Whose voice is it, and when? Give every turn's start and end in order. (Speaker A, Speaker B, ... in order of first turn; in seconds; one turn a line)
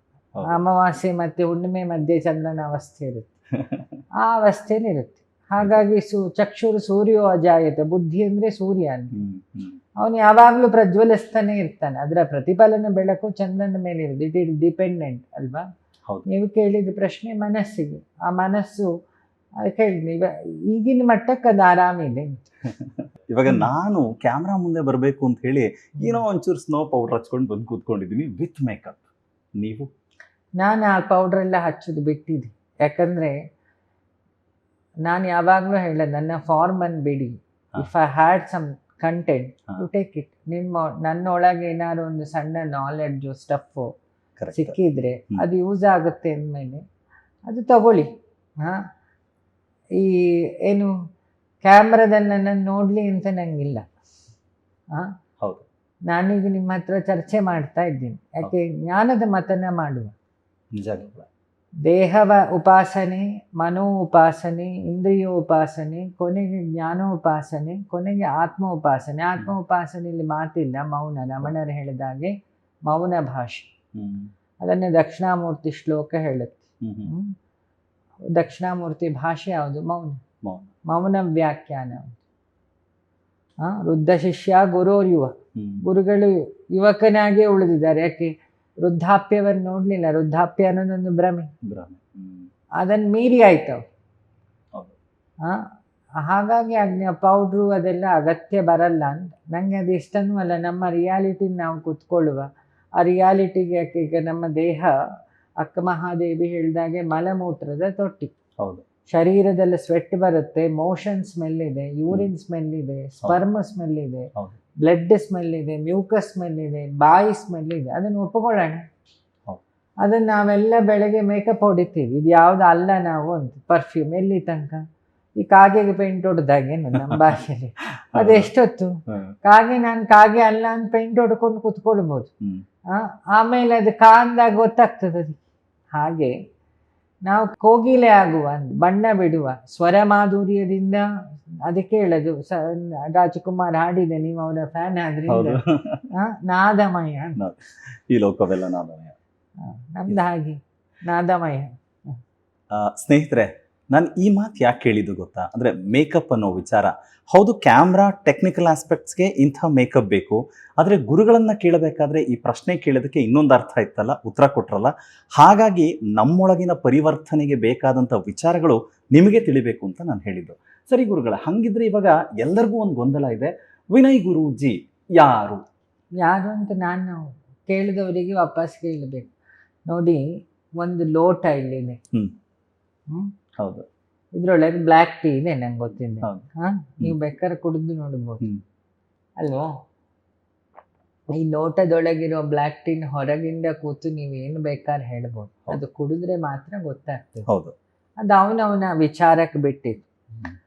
Speaker A: 0.3-0.6
Speaker B: 0.4-3.3
Speaker A: 3.5-3.9
Speaker B: 4.2-9.1
Speaker A: 9.1-9.8
Speaker B: 10.0-15.7
Speaker B: 16.3-18.9
Speaker B: 19.6-22.4
Speaker A: 22.8-29.1
Speaker A: 29.6-29.9
Speaker B: 30.6-33.3
Speaker B: 35.0-43.9
Speaker A: 44.4-44.7
Speaker B: 44.5-46.8
Speaker B: 47.5-48.1
Speaker B: 50.0-50.9
Speaker B: 51.6-53.8
Speaker A: 55.4-55.6
Speaker B: 56.1-60.1
Speaker A: 60.8-61.3
Speaker B: 61.8-72.3
Speaker B: 72.8-73.7
Speaker A: 73.9-74.3
Speaker B: 74.6-77.3
Speaker A: 76.8-77.1
Speaker B: 78.3-80.2
Speaker A: 80.4-80.7
Speaker B: 80.9-82.2
Speaker B: 83.6-91.5
Speaker A: 85.5-85.8
Speaker A: 91.7-92.5
Speaker B: 92.8-93.8
Speaker B: 96.2-102.5
Speaker B: 103.0-104.9
Speaker B: 105.6-108.3
Speaker B: 109.1-114.3
Speaker B: 114.8-118.8
Speaker B: 120.0-124.8
Speaker B: 125.4-132.3
Speaker A: 127.0-127.2
Speaker A: 128.1-128.5
Speaker A: 129.1-129.3
Speaker B: 132.9-135.4
Speaker B: 135.9-136.3
Speaker B: 137.2-141.0
Speaker B: 141.7-147.4
Speaker A: 145.3-146.1
Speaker A: 147.4-149.2
Speaker B: 149.6-151.7
Speaker A: 152.7-175.6
Speaker B: 176.2-179.3
Speaker B: 179.9-180.2
Speaker B: 180.8-182.0
Speaker A: 183.6-183.8
Speaker B: 184.3-188.4
Speaker B: 189.4-189.7
Speaker B: 191.3-197.5
Speaker A: 197.5-197.7
Speaker B: 198.2-200.0